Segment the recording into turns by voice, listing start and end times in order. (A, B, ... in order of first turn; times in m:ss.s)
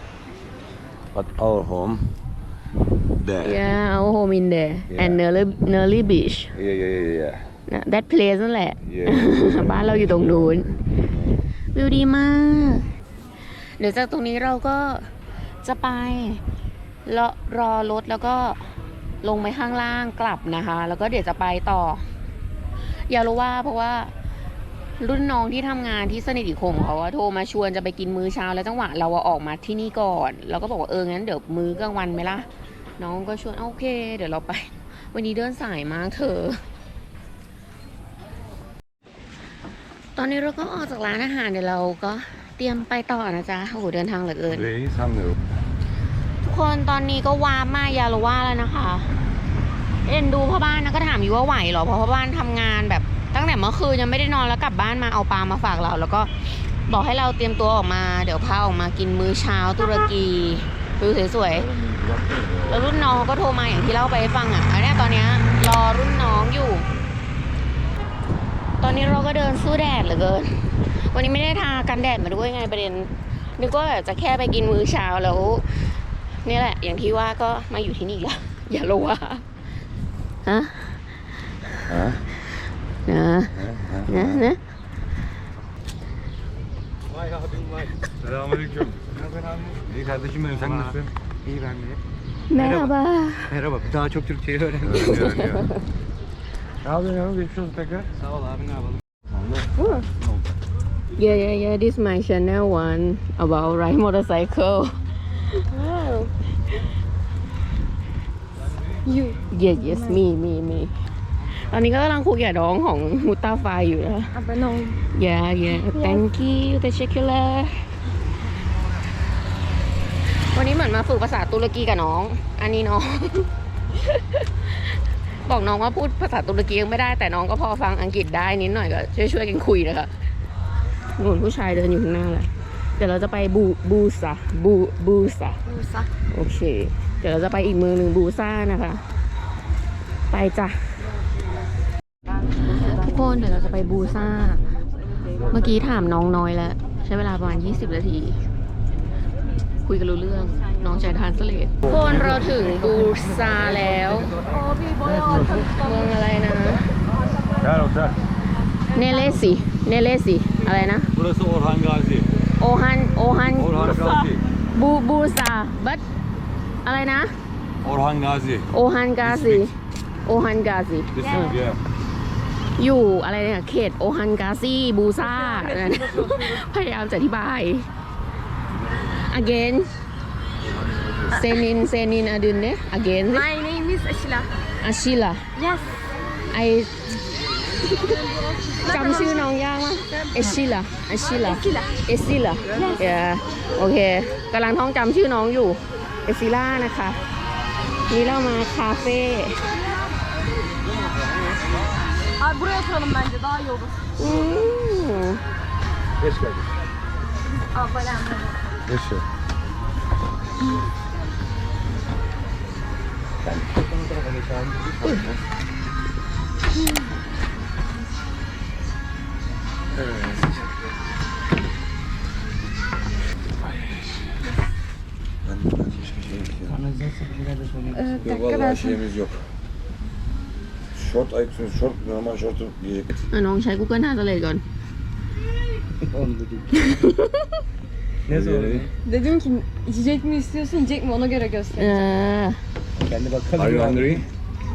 0:01.1-0:02.2 A
0:03.2-0:03.6 A
0:03.4-0:06.5 B
0:04.9-0:05.2 A
0:06.5-0:07.5 A
0:07.7-0:10.7 B
0:08.8-0:11.3 A
0:11.7-0:12.9 B
0:13.8-0:15.1 B
0:15.6-0:16.4 B
0:17.0-0:22.0 B
0:23.1-0:24.1 B
0:25.0-0:36.6 B
0:40.2-0:44.7 B
0:44.5-0:45.4 A
0:46.4-0:49.1 B
0:50.0-1:01.7 B
1:01.5-1:02.9 A
1:02.7-1:06.8 B
1:08.8-1:19.4 B
1:20.4-1:21.0 B
1:21.9-1:22.2 A
1:23.0-1:24.6 B
1:23.5-1:24.4 A
1:27.1-1:28.0 C
1:28.2-1:29.0 A
1:29.1-1:29.8 C
1:29.9-1:31.1 A
1:30.6-1:32.0 C
1:32.5-1:33.6 B
1:32.5-1:32.9 C
1:33.5-1:35.4 C
1:34.8-1:35.6 A
1:35.0-1:35.7 B
1:36.8-1:38.1 A
1:38.2-1:39.0 C
1:39.3-1:39.7 A
1:39.8-1:40.1 D
1:41.1-1:45.0 B
1:45.7-1:46.3 D
1:49.0-1:50.2 D
1:49.5-1:50.9 B
1:51.5-1:54.3 B
1:54.3-1:55.0 D
1:55.1-1:57.9 B
1:55.7-1:56.2 D
2:00.2-2:04.8 B
2:05.4-2:10.1 B
2:11.1-2:15.6 B
2:15.7-2:16.1 D
2:16.2-2:19.0 B
2:20.3-2:21.1 B
2:22.6-2:24.6 B
2:25.5-2:28.4 B
2:29.8-2:34.3 B
2:32.2-2:32.6 C
2:34.4-2:36.1 D
2:35.0-2:35.7 A
2:35.7-2:36.8 B
2:37.6-2:38.2 A
2:38.9-2:41.1 B
2:41.1-2:42.3 A
2:42.6-2:46.0 B
2:43.5-2:44.4 A
2:46.8-2:47.3 B
2:47.8-2:48.7 A
2:48.7-2:49.7 B
2:49.2-2:49.7 A
2:50.2-2:51.6 B
2:51.2-2:51.8 A
2:51.2-2:51.6 D
2:52.8-2:57.9 B
2:55.2-2:56.6 D
2:59.1-2:59.9 B
3:00.6-3:01.4 A
3:01.3-3:03.5 B
3:03.3-3:04.5 D
3:04.8-3:05.4 B
3:05.5-3:05.9 D
3:06.5-3:06.9 B
3:07.8-3:08.2 B
3:07.8-3:09.5 D
3:08.8-3:17.2 B
3:10.1-3:10.4 D
3:11.2-3:12.0 D
3:12.7-3:13.2 D
3:18.1-3:19.6 B
3:22.4-3:24.0 D
3:24.2-3:25.4 B
3:26.2-3:26.7 A
3:27.6-3:28.6 D
3:28.8-3:29.2 A
3:33.4-3:33.7 A
3:33.8-3:34.9 C
3:35.0-3:35.4 A
3:39.9-3:40.7 A
3:43.7-3:44.0 A
3:45.4-3:46.8 A
3:46.7-3:48.2 C
3:47.9-3:49.0 D
3:48.2-3:49.4 A
3:50.9-3:53.2 A
3:53.3-3:54.6 B
3:56.1-3:57.0 C
3:56.7-3:57.5 B
3:58.2-3:58.9 C
3:58.3-3:58.9 A
3:59.0-4:02.1 D
4:01.7-4:02.6 B
4:03.0-4:04.2 C
4:03.5-4:04.3 A